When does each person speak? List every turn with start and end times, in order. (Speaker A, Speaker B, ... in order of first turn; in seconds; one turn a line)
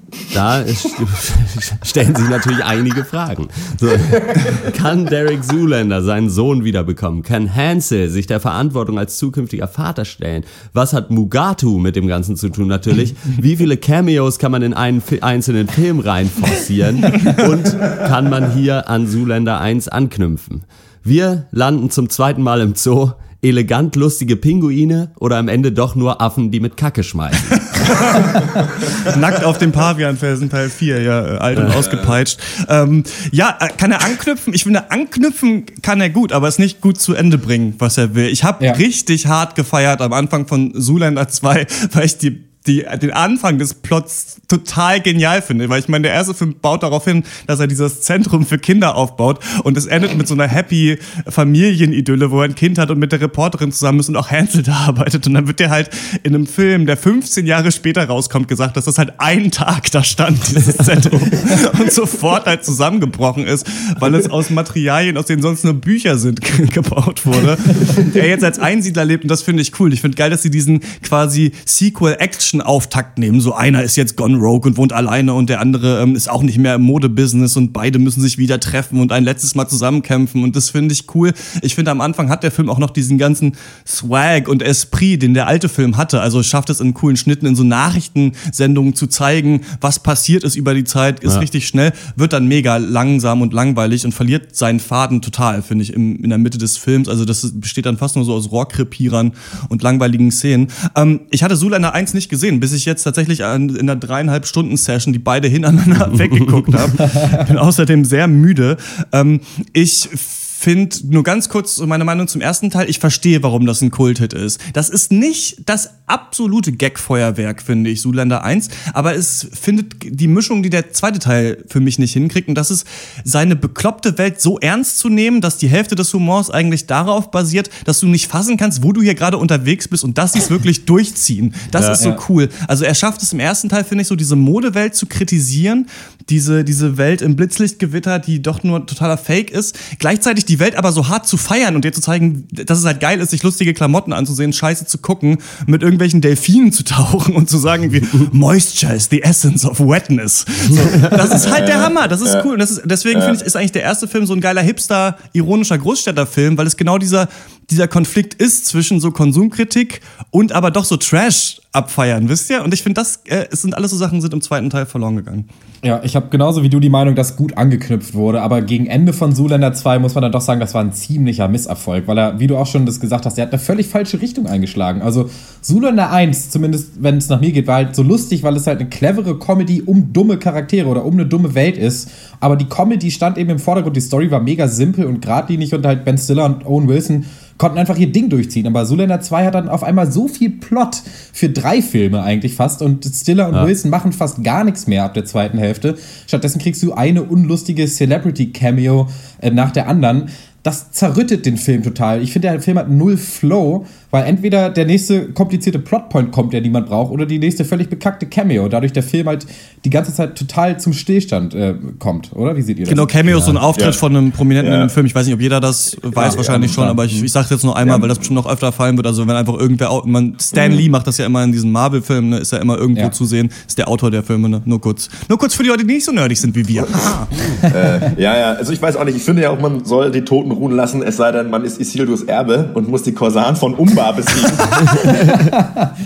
Speaker A: 0.3-27.9
Speaker B: 27.9-28.4
Speaker B: 29.0-165.5
Speaker A: 31.5-31.8
Speaker C: 31.8-32.1
Speaker A: 131.7-132.0
Speaker C: 151.1-152.5
Speaker C: 153.1-153.4
Speaker D: 165.8-213.6
Speaker B: 212.9-227.5
Speaker C: 214.6-214.9
Speaker D: 216.2-217.3
Speaker C: 216.2-216.7
Speaker C: 217.8-218.3
Speaker C: 220.5-220.9
Speaker C: 227.7-235.3